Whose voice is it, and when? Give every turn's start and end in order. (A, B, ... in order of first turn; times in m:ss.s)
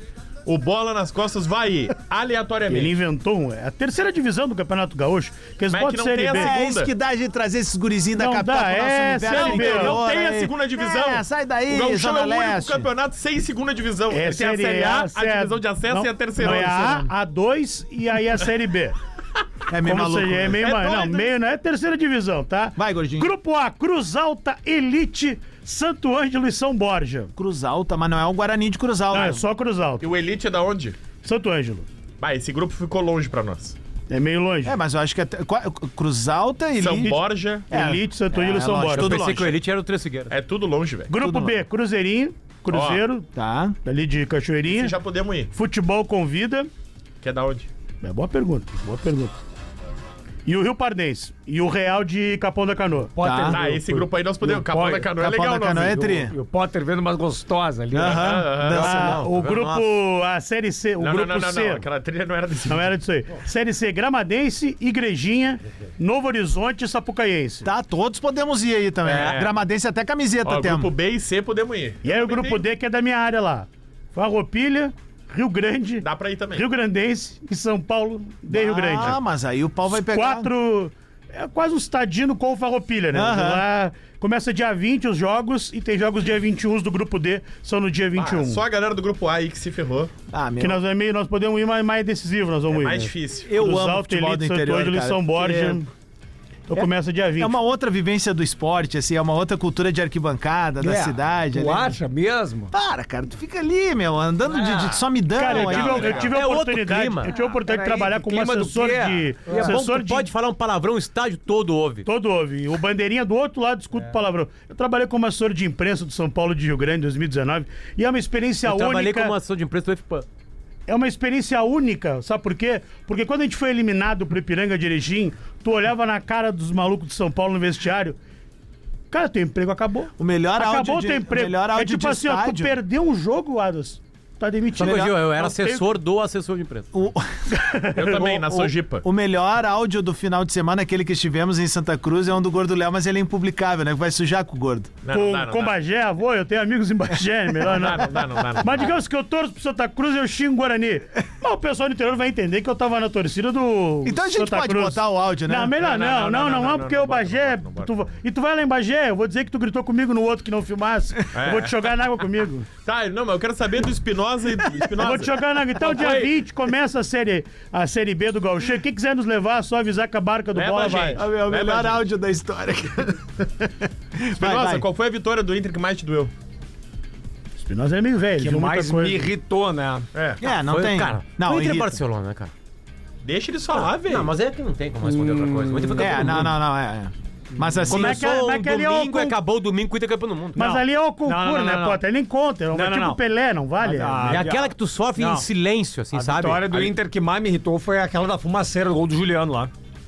0:00.4-0:03.0 A
0:02.7-0:06.5 B
0:05.7-0:06.9 A
0:06.3-0:12.9 C
0:08.2-0:10.0 B
0:09.3-0:17.1 A
0:14.1-0:19.0 B
0:19.7-0:20.6 C
0:19.8-0:27.3 B
0:20.6-0:21.3 A
0:22.8-0:23.3 C
0:27.4-0:29.4 C
0:29.1-0:30.1 B
0:30.0-0:31.0 A
0:31.2-0:31.9 B
0:32.2-0:33.8 A
0:34.1-0:34.8 B
0:34.6-0:37.1 C
0:36.8-0:37.7 A
0:37.0-0:39.2 B
0:37.7-0:39.6 C
0:38.9-0:40.3 D
0:40.3-0:41.2 A
0:41.1-0:43.3 B
0:42.7-0:43.0 A
0:43.3-0:43.8 C
0:43.8-0:44.9 B
0:44.7-0:45.5 A
0:45.5-0:46.7 B
0:47.2-0:47.7 A
0:48.0-0:49.3 B
0:50.4-0:53.3 B
0:53.2-0:55.1 E
0:53.2-0:53.6 C
0:53.5-0:56.0 A
0:55.2-0:56.3 C
0:55.7-0:58.4 E
0:57.9-0:59.2 C
0:58.0-0:58.9 A
0:58.7-1:01.8 B
0:58.8-0:59.9 D
1:01.0-1:02.9 A
1:02.7-1:07.7 B
1:07.6-1:10.9 C
1:09.0-1:09.5 A
1:10.4-1:12.6 A
1:12.0-1:19.2 B
1:16.0-1:16.6 A
1:18.5-1:20.5 C
1:19.9-1:28.6 B
1:23.1-1:23.6 C
1:28.2-1:30.1 A
1:30.3-1:30.8 C
1:30.6-1:35.9 B
1:32.7-1:33.5 A
1:33.5-1:35.8 C
1:36.7-1:37.5 B
1:36.7-1:42.0 C
1:40.8-1:42.7 E
1:42.7-1:46.3 C
1:44.5-1:45.0 E
1:45.4-1:50.3 B
1:45.4-1:46.3 A
1:46.3-1:47.3 D
1:47.3-1:49.8 E
1:49.6-1:52.0 D
1:52.0-1:59.3 B
1:58.6-2:00.2 D
2:00.9-2:08.2 B
2:09.1-2:15.8 B
2:10.2-2:12.8 C
2:14.7-2:16.9 D
2:16.9-2:17.5 C
2:17.5-2:18.2 B
2:17.9-2:19.0 A
2:18.1-2:24.9 C
2:25.0-2:25.8 A
2:25.1-2:42.7 B
2:27.6-2:28.9 A
2:34.0-2:35.7 C
2:35.8-2:37.9 A
2:41.3-2:41.8 A
2:42.8-2:46.4 A
2:45.0-2:51.2 B
2:50.5-2:52.0 A
2:51.1-2:54.8 C
2:54.3-2:56.3 A
2:57.6-2:59.3 B
2:58.4-3:00.0 E
3:00.1-3:00.4 A
3:00.4-3:02.0 C
3:00.6-3:02.5 D
3:03.2-3:04.3 A
3:03.7-3:06.5 D
3:05.0-3:06.5 E
3:06.0-3:08.2 C
3:07.6-3:07.8 E
3:07.9-3:10.8 D
3:07.9-3:09.4 B
3:10.6-3:12.0 E
3:10.6-3:14.4 B
3:12.7-3:13.2 E
3:13.8-3:15.4 E
3:14.3-3:16.7 D
3:16.1-3:19.7 E